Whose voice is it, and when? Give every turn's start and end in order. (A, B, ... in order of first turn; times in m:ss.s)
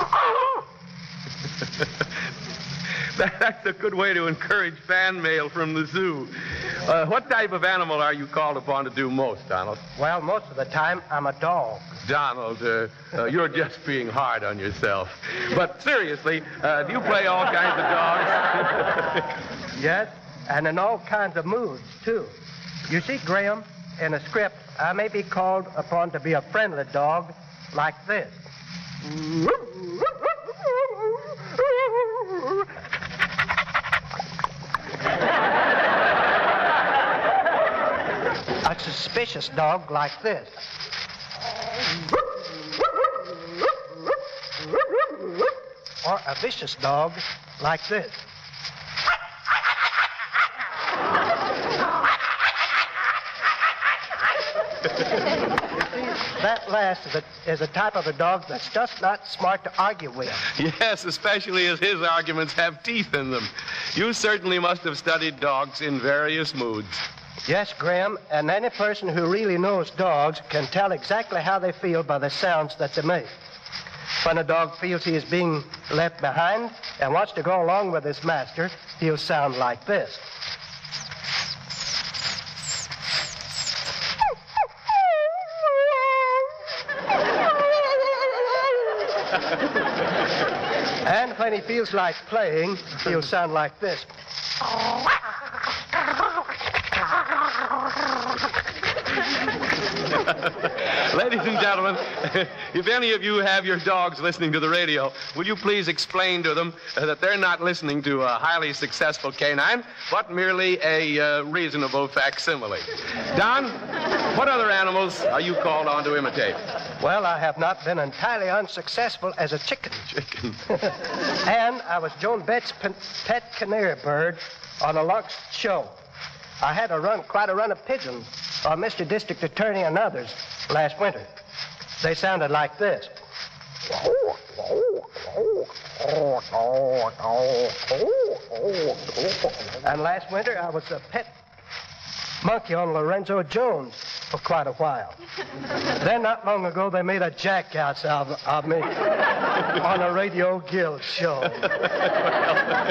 0:03.2-0:09.8 A
0:10.0-0:11.9 B
0:12.0-0:19.0 A
0:19.8-0:22.3 B
0:22.9-0:28.4 B
0:38.6-0:40.5 B
0:46.0-0:48.2 B
0:56.1-1:00.4 B
1:00.6-1:07.0 A
1:07.4-1:13.3 B
1:14.2-1:20.2 B
1:31.0-1:34.1 B
1:41.1-1:56.6 A
1:57.0-2:00.0 B
2:00.1-2:00.6 A
2:01.4-2:05.9 B
2:06.6-2:11.3 B
2:12.0-2:13.1 B
2:19.8-2:21.3 B
2:22.4-2:25.2 B
2:26.0-2:29.1 B
2:29.8-2:31.6 B
2:32.3-2:32.6 A